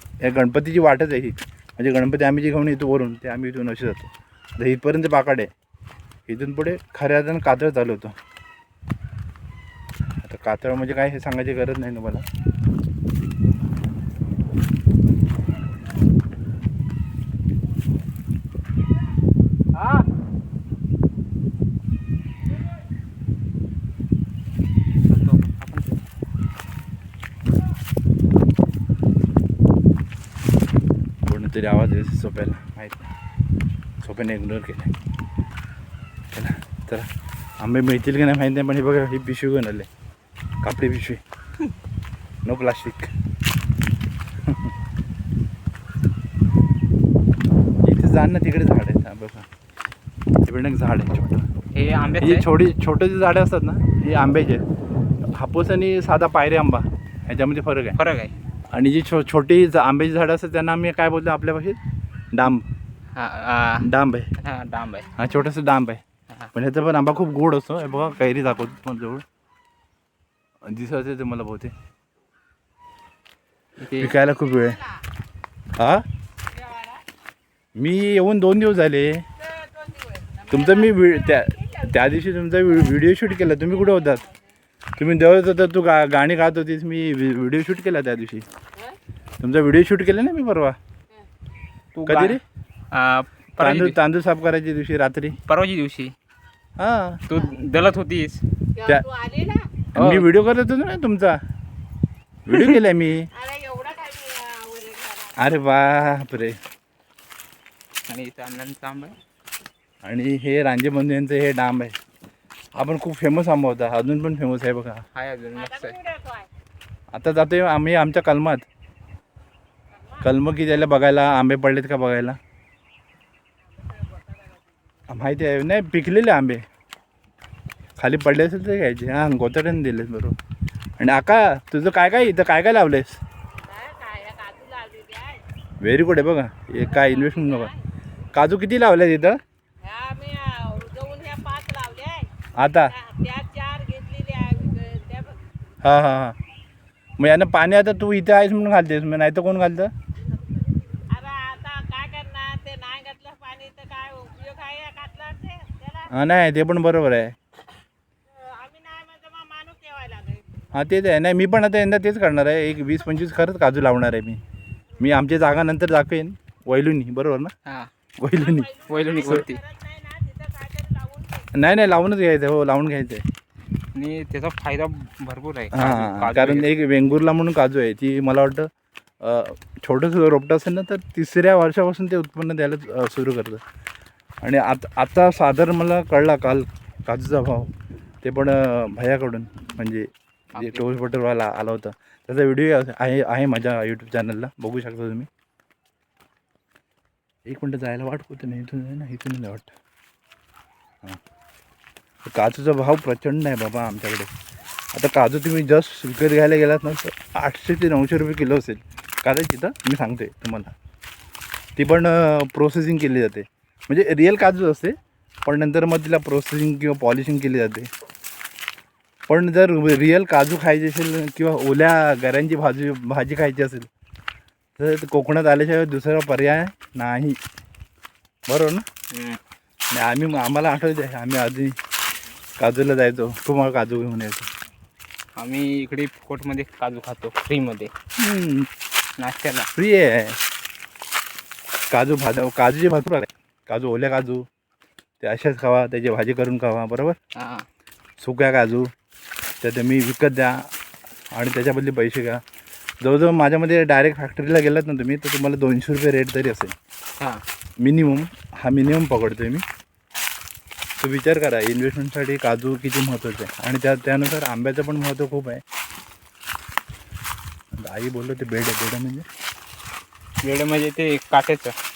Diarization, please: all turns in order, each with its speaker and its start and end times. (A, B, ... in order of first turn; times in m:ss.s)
0:00.2-0:05.5 A
0:06.3-0:08.1 A
0:10.2-0:12.2 A
0:19.7-0:20.1 B
0:25.1-0:26.0 B
0:31.3-0:33.1 A
0:34.0-0:34.9 A
0:36.3-0:37.1 A
0:37.6-0:39.9 A
0:40.6-0:41.2 A
0:42.4-0:43.1 A
0:47.8-0:49.5 A
0:50.4-0:51.5 A
0:51.7-0:52.5 B
0:52.2-0:54.6 A
0:55.2-0:58.0 A
0:58.0-0:58.3 B
0:58.7-1:01.8 A
1:02.3-1:02.7 A
1:03.1-1:05.1 B
1:03.8-1:04.3 A
1:05.2-1:06.0 A
1:06.5-1:09.2 A
1:10.6-1:11.7 A
1:13.8-1:14.2 B
1:13.9-1:14.9 A
1:15.8-1:16.0 A
1:17.8-1:19.3 A
1:20.5-1:24.3 A
1:25.0-1:28.4 A
1:29.4-1:30.8 A
1:31.9-1:32.4 B
1:32.1-1:32.4 A
1:32.9-1:34.0 B
1:33.6-1:35.4 A
1:35.5-1:36.1 B
1:36.8-1:37.2 A
1:37.3-1:38.4 B
1:38.8-1:39.1 A
1:39.1-1:39.7 C
1:39.9-1:41.4 A
1:40.0-1:40.3 B
1:42.4-1:43.3 A
1:43.4-1:45.3 C
1:45.3-1:46.6 A
1:48.1-1:49.2 B
1:50.0-1:52.0 A
1:52.7-1:55.1 A
1:55.1-1:56.1 B
1:56.2-1:56.4 C
1:57.1-1:58.7 A
2:00.2-2:02.4 A
2:05.1-2:06.6 A
2:08.0-2:10.4 A
2:11.0-2:13.2 A
2:13.7-2:15.4 C
2:15.8-2:17.7 A
2:18.3-2:19.4 A
2:19.8-2:22.3 C
2:22.6-2:23.0 A
2:23.0-2:25.4 C
2:25.8-2:26.4 A
2:27.2-2:29.9 A
2:31.1-2:36.0 C
2:36.1-2:37.4 A
2:38.4-2:40.5 C
2:40.7-2:44.4 A
2:45.0-2:47.5 A
2:47.7-2:47.9 B
2:48.2-2:49.5 A
2:48.8-2:49.7 B
2:49.8-2:51.4 C
2:51.5-2:53.3 A
2:53.9-2:56.7 B
2:55.7-2:58.7 A
2:59.2-3:03.6 A
3:04.4-3:07.7 A
3:08.2-3:15.3 A
3:10.5-3:10.9 B
3:17.4-3:19.7 A
3:22.3-3:24.3 A
3:24.9-3:30.7 A
3:31.8-3:37.9 A
3:39.3-3:43.9 A
3:44.8-3:47.4 A
3:48.5-3:48.8 A
3:49.1-3:49.4 B
3:49.9-3:51.8 A
3:52.6-3:54.5 A
3:55.4-3:57.9 B
3:58.2-3:58.7 A
3:59.2-3:59.7 B
3:59.7-4:00.4 A
4:01.9-4:04.4 A
4:05.2-4:07.2 A
4:07.3-4:07.7 B
4:08.2-4:08.9 A
4:09.6-4:10.7 A
4:11.3-4:12.4 A
4:13.0-4:16.7 A
4:17.8-4:19.6 A
4:21.0-4:25.6 A
4:27.8-4:29.3 A
4:30.4-4:31.8 B